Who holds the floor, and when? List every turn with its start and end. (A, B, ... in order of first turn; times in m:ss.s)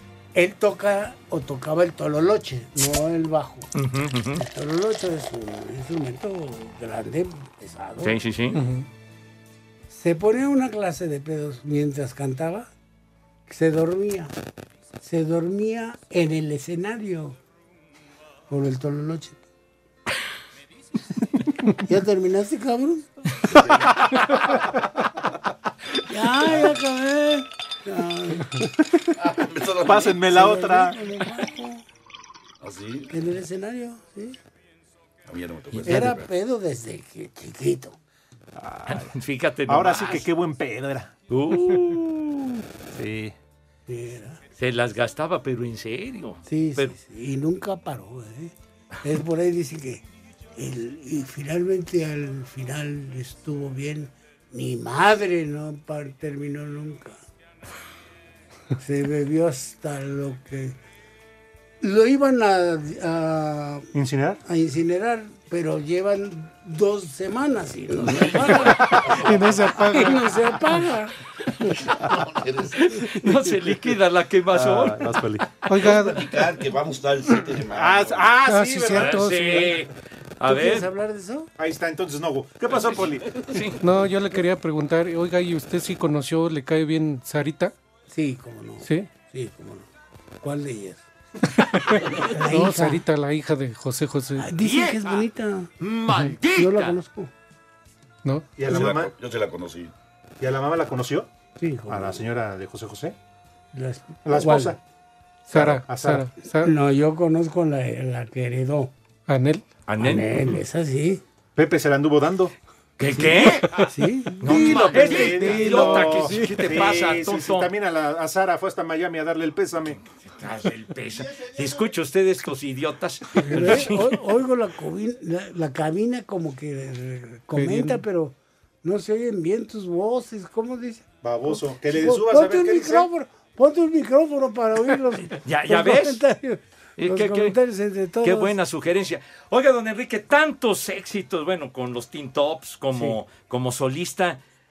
0:00.3-0:03.7 A
0:03.7-0:04.4 B
0:04.4-0:08.2 A
0:08.0-0:08.6 B
0:08.5-0:08.9 C
0:09.9-0:12.7 A
0:13.5-0:14.3 A
0:15.0-0:17.4 A
0:18.5-0:19.4 A
0:21.8-0:23.6 A
0:23.5-0:24.0 D
0:26.1-0:28.7 A
0:29.2-0:30.2 D
0:29.8-0:31.0 E
0:30.2-0:31.8 A
0:32.6-0:33.1 D
0:33.1-0:34.4 A
0:35.2-0:36.3 D
0:35.7-0:36.1 B
0:35.8-0:38.0 A
0:38.6-0:39.1 E
0:38.9-0:40.2 B
0:39.7-0:41.1 E
0:41.3-0:42.6 B
0:42.9-0:43.3 E
0:43.9-0:44.4 A
0:44.6-0:46.9 B
0:46.4-0:50.0 A
0:50.6-0:57.2 A
0:58.8-1:00.8 A
1:01.8-1:03.9 A
1:03.9-1:04.4 E
1:04.4-1:11.8 A
1:08.0-1:09.8 D
1:09.1-1:10.2 C
1:11.9-1:13.0 D
1:12.8-1:15.1 B
1:14.5-1:15.5 E
1:15.7-1:16.4 C
1:15.7-1:18.3 D
1:17.7-1:19.6 E
1:18.4-1:19.8 C
1:18.9-1:20.9 B
1:20.4-1:21.5 A
1:21.6-1:23.3 E
1:22.7-1:23.8 B
1:23.8-1:27.7 C
1:28.1-1:29.9 A
1:28.8-1:29.1 C
1:30.4-1:31.0 A
1:31.7-1:34.5 C
1:32.1-1:33.0 A
1:34.4-1:35.7 A
1:34.6-1:35.2 B
1:35.8-1:37.0 B
1:36.4-1:37.3 A
1:38.2-1:38.6 C
1:38.6-1:39.1 E
1:38.6-1:39.9 D
1:40.4-1:41.3 E
1:41.6-1:42.2 A
1:41.9-1:43.2 E
1:43.7-1:44.8 A
1:44.2-1:44.8 E
1:45.5-1:46.7 C
1:45.5-1:46.3 E
1:46.6-1:48.9 A
1:49.3-1:49.6 C
1:49.9-1:50.4 B
1:50.0-1:51.2 A
1:51.6-1:52.5 E
1:53.0-1:53.9 B
1:53.7-1:55.2 A
1:54.4-1:57.7 B
1:54.4-2:00.0 E
1:55.3-1:56.5 C
2:00.4-2:04.2 B
2:03.4-2:18.5 A
2:07.5-2:08.0 C
2:11.2-2:13.1 E
2:15.4-2:16.2 B
2:17.0-2:17.6 B
2:18.2-2:24.4 B
2:22.9-2:23.2 A